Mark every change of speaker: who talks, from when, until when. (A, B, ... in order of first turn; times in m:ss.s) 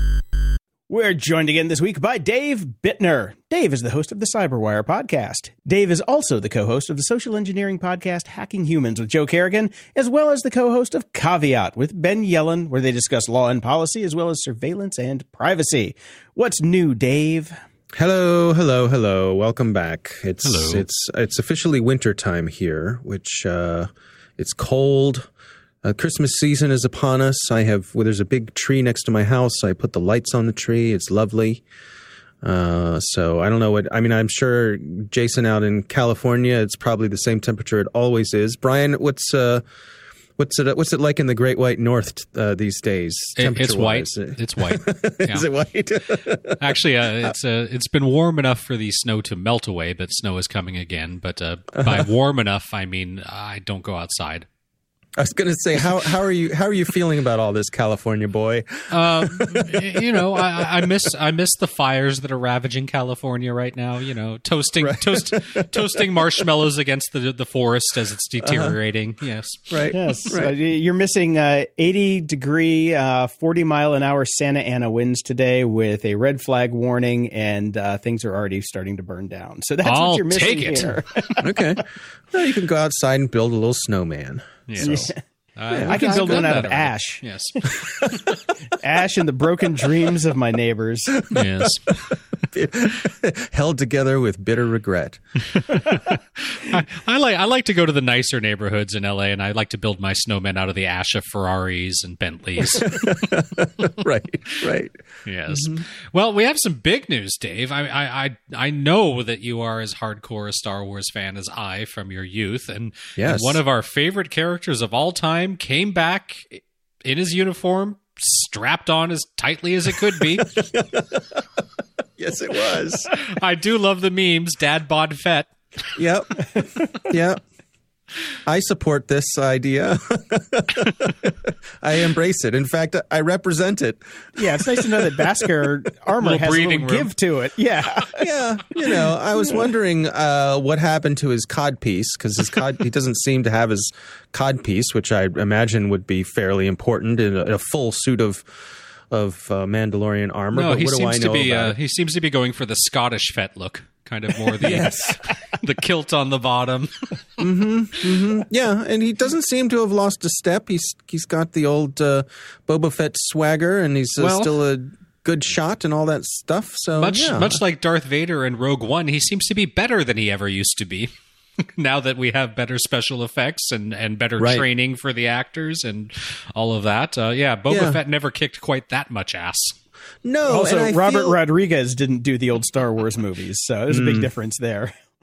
0:00.9-0:17.5 A
0:18.0-0:25.3 B
0:20.4-0:20.8 C
0:25.8-0:31.6 B
0:32.4-0:39.6 B
0:40.4-0:46.6 B
0:43.4-0:45.5 C
0:46.6-0:54.4 C
0:55.2-1:00.4 B
0:58.9-1:10.2 C
1:04.8-1:05.7 B
1:08.4-1:08.7 B
1:09.7-1:10.5 B
1:09.9-1:21.8 A
1:19.8-1:21.4 C
1:21.4-1:25.1 B
1:24.7-1:28.4 C
1:24.8-1:25.2 A
1:25.7-1:26.6 B
1:25.9-1:27.2 A
1:28.7-1:31.2 A
1:31.3-1:32.0 C
1:32.5-1:35.2 B
1:35.5-1:43.3 C
1:42.6-1:45.0 B
1:45.2-2:00.6 C
1:45.5-1:45.8 B
1:53.2-1:53.6 B
2:00.5-2:01.4 B
2:02.2-2:03.2 B
2:03.1-2:05.5 C
2:06.0-2:07.4 B
2:08.4-2:15.5 B
2:14.4-2:19.7 A
2:16.2-2:17.1 C
2:18.2-2:28.4 B
2:29.1-2:31.7 B
2:30.5-2:37.1 C
2:34.6-2:35.2 B
2:37.4-2:47.6 B
2:44.2-2:44.6 C
2:47.0-2:51.1 C
2:51.8-2:59.8 C
2:54.4-2:54.6 B
2:57.7-2:58.0 B
3:00.2-3:01.4 B
3:00.4-3:04.9 A
3:03.9-3:04.3 B